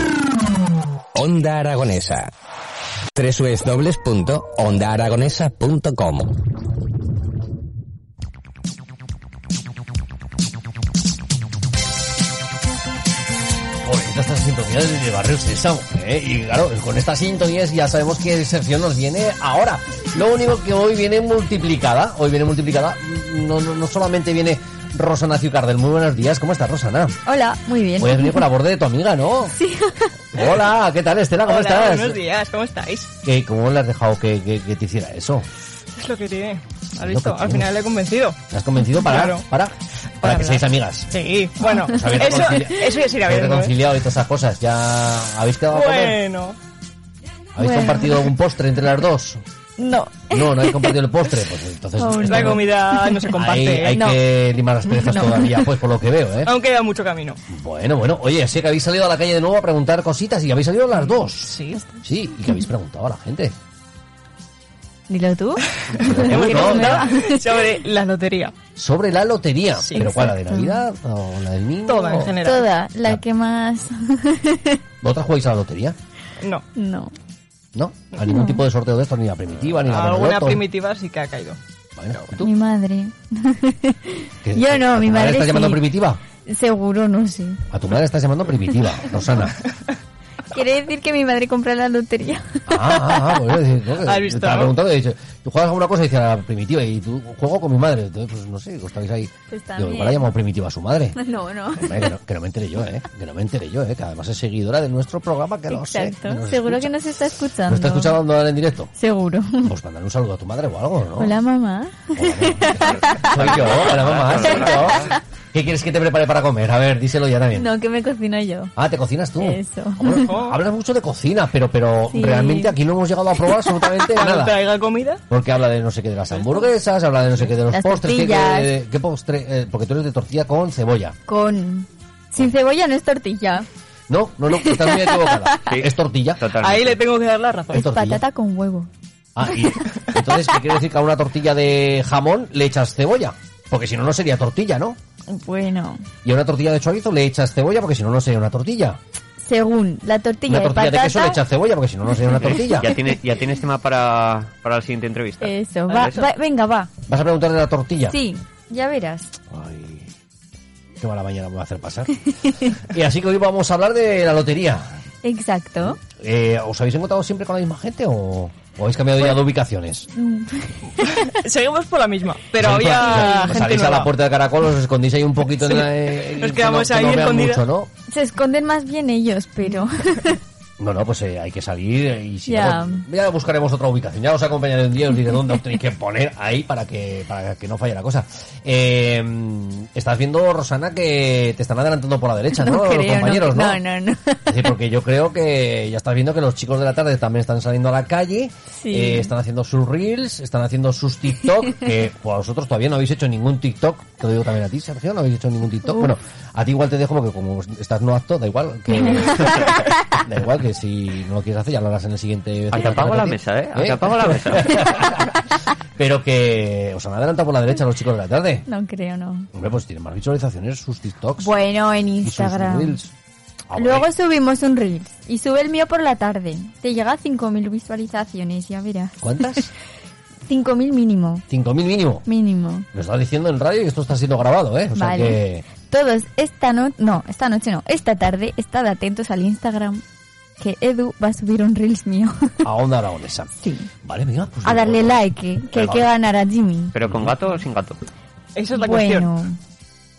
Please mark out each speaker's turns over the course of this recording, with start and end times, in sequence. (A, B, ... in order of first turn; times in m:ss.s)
0:01.2-0:02.3 A
0:03.2-0:06.3 A
0:13.8-0:27.2 B
0:27.2-0:28.4 C
0:28.0-0:29.6 B
0:29.5-0:30.1 C
0:30.3-0:32.2 B
0:31.4-0:33.1 D
0:33.2-0:35.5 B
0:36.0-0:38.4 D
0:37.0-0:37.8 B
0:38.5-0:41.1 B
0:39.0-0:39.5 D
0:40.2-0:43.8 D
0:41.7-0:46.2 B
0:45.7-0:46.6 D
0:47.6-0:49.4 B
0:47.6-0:48.3 C
0:49.8-0:51.0 C
0:50.3-0:52.6 B
0:52.0-0:53.2 C
0:52.2-0:54.0 D
0:53.3-0:56.5 B
0:53.9-0:54.2 C
0:55.1-0:55.6 C
0:56.4-0:57.4 D
0:57.5-1:03.6 B
1:01.5-1:01.8 D
1:05.1-1:07.4 C
1:05.9-1:07.1 B
1:06.2-1:08.5 D
1:08.8-1:12.4 B
1:09.8-1:10.3 D
1:10.0-1:10.8 C
1:11.9-1:12.6 D
1:12.4-1:14.8 C
1:15.0-1:16.0 B
1:16.8-1:17.1 C
1:17.8-1:20.6 B
1:18.3-1:18.6 C
1:19.9-1:21.6 D
1:22.0-1:22.5 B
1:22.4-1:25.9 C
1:24.4-1:26.2 B
1:26.4-1:27.6 C
1:27.7-1:29.6 B
1:30.5-1:33.2 C
1:32.7-1:41.2 B
1:34.0-1:34.7 D
1:39.5-1:40.3 C
1:41.1-1:42.1 C
1:41.8-1:46.9 B
1:45.7-1:48.2 C
1:47.6-1:49.0 B
1:49.0-1:49.7 C
1:49.6-1:51.4 B
1:51.2-1:53.7 C
1:52.2-1:57.7 B
1:53.3-1:55.0 E
1:54.5-1:54.9 C
1:57.5-1:58.7 C
1:58.8-2:04.6 B
1:59.4-2:00.3 C
2:00.2-2:00.6 D
2:02.1-2:02.8 C
2:04.1-2:05.2 D
2:05.3-2:11.2 B
2:07.7-2:08.7 C
2:11.3-2:13.7 C
2:14.1-2:16.6 B
2:14.5-2:15.2 C
2:15.7-2:17.0 E
2:16.7-2:17.8 D
2:17.7-2:18.2 B
2:17.7-2:18.9 C
2:19.4-2:25.0 B
2:25.3-2:26.0 C
2:26.2-2:29.0 B
2:29.4-2:31.4 C
2:30.5-2:33.0 B
2:32.4-2:36.2 E
2:35.4-2:36.9 C
2:37.1-2:38.2 B
2:38.1-2:39.3 C
2:39.5-2:40.1 B
2:41.0-2:44.8 B
2:45.2-2:46.0 C
2:45.9-2:50.1 B
2:50.1-2:51.1 C
2:51.3-2:54.1 D
2:52.6-2:57.9 B
2:52.9-2:53.6 C
2:55.6-2:57.6 D
2:58.1-3:00.4 C
3:00.8-3:13.8 B
3:02.5-3:03.0 C
3:12.5-3:14.7 C
3:14.5-3:35.3 B
3:18.8-3:19.3 C
3:32.7-3:34.8 E
3:36.0-3:38.7 B
3:38.7-3:39.5 C
3:39.5-3:41.5 B
3:41.4-3:43.0 C
3:42.2-3:43.1 B
3:43.7-3:44.1 B
3:43.8-3:49.3 C
3:49.2-3:49.7 B
3:50.5-3:51.4 C
3:51.5-3:52.3 B
3:52.2-3:52.9 C
3:52.9-3:55.7 B
3:54.9-4:00.0 C
4:00.6-4:02.6 C
4:02.6-4:06.1 B
4:03.6-4:03.9 C
4:04.6-4:06.9 C
4:06.9-4:08.0 E
4:07.0-4:07.4 B
4:08.5-4:09.3 D
4:08.7-4:09.6 C